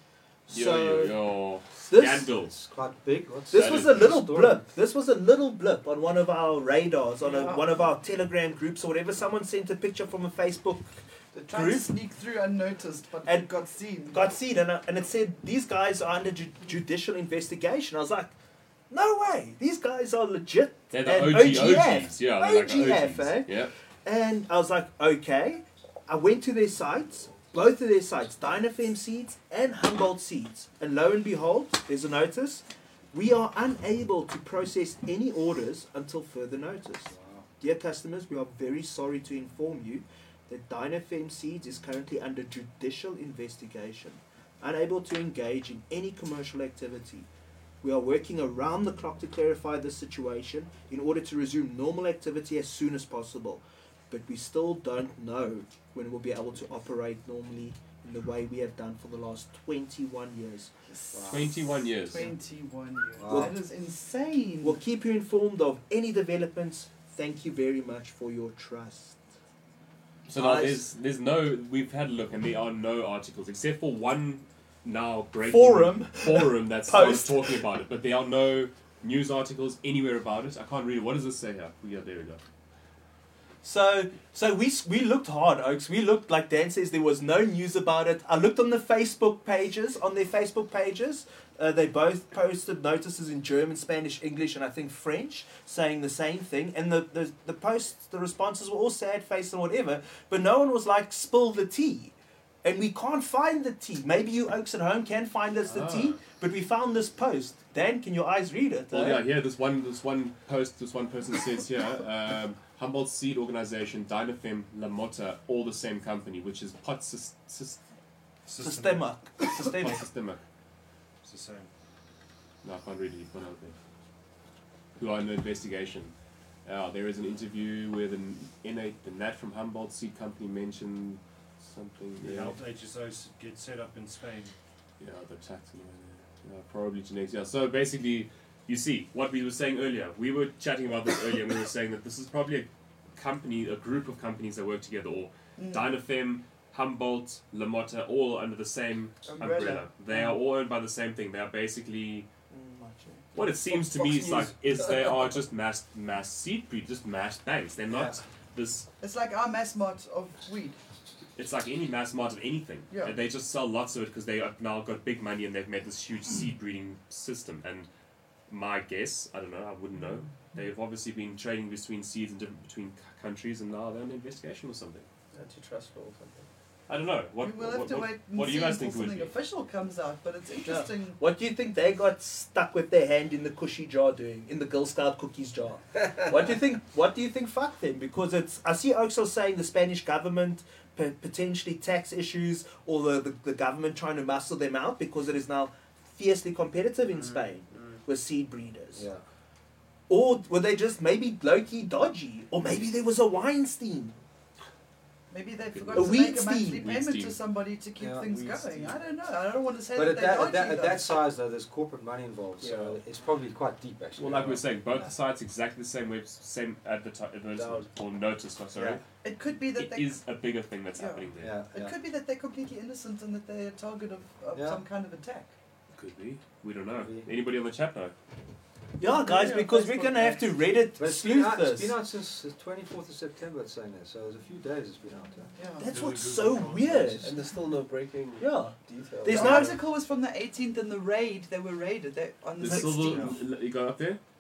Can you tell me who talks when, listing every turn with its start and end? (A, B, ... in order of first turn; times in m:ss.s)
0:00.5-0:01.2 A
0:00.5-0:02.5 B
0:01.9-0:02.3 A
0:02.4-0:04.6 C
0:03.5-0:11.0 A
0:03.5-0:04.1 B
0:07.2-0:07.9 D
0:11.3-0:14.2 D
0:11.5-0:11.9 A
0:13.2-0:13.5 A
0:14.1-0:18.3 A
0:18.9-0:47.3 A
0:20.9-0:23.7 B
0:37.1-0:37.5 C
0:47.8-1:00.7 A
1:00.9-1:04.8 D
1:01.1-1:01.6 C
1:01.3-1:02.3 B
1:03.2-1:03.5 C
1:03.3-1:03.6 A
1:04.6-1:09.2 A
1:10.3-1:22.4 B
1:10.4-1:10.9 A
1:15.4-1:17.6 A
1:23.6-1:49.3 A
1:45.7-1:46.2 B
1:48.9-1:57.8 B
1:58.5-1:59.1 E
1:58.6-2:00.0 A
1:59.5-2:00.4 B
2:01.2-2:01.7 E
2:02.6-2:03.8 B
2:05.0-2:06.1 B
2:06.6-2:12.6 B
2:12.2-2:14.5 E
2:15.0-2:32.3 B
2:25.6-2:25.9 D
2:29.2-2:30.4 D
2:32.5-2:33.2 A
2:33.3-2:38.9 B
2:33.8-2:34.5 F
2:37.9-2:38.2 C
2:39.0-2:40.8 D
2:41.4-2:47.9 B
2:42.9-2:43.2 D
2:48.5-2:55.1 B
2:55.3-2:56.5 F
2:56.9-2:59.3 B
2:57.4-3:01.2 D
3:00.6-3:19.1 A
3:19.0-3:19.2 C
3:20.1-3:24.2 A
3:25.3-3:31.1 D
3:25.7-3:27.4 B
3:25.9-3:26.9 A
3:28.0-3:28.9 C
3:29.9-3:34.7 C
3:32.6-3:33.0 F
3:34.2-3:39.0 B
3:37.5-3:37.9 F
3:38.8-3:39.0 C
3:39.2-3:40.2 D
3:39.7-3:41.6 B
3:41.0-3:45.5 D
3:41.4-3:42.0 C
3:44.5-3:44.8 C
3:45.9-3:48.1 B
3:47.0-3:47.3 C
3:49.0-3:52.0 A
3:49.0-3:50.5 D
3:51.0-3:55.5 C
3:55.6-3:55.9 D
3:55.8-3:57.4 A
3:55.9-3:57.2 E
3:56.8-3:57.3 C
3:57.2-3:59.7 F
3:58.4-3:59.8 A
3:59.3-4:03.4 D
4:02.6-4:04.2 B
4:03.1-4:03.4 E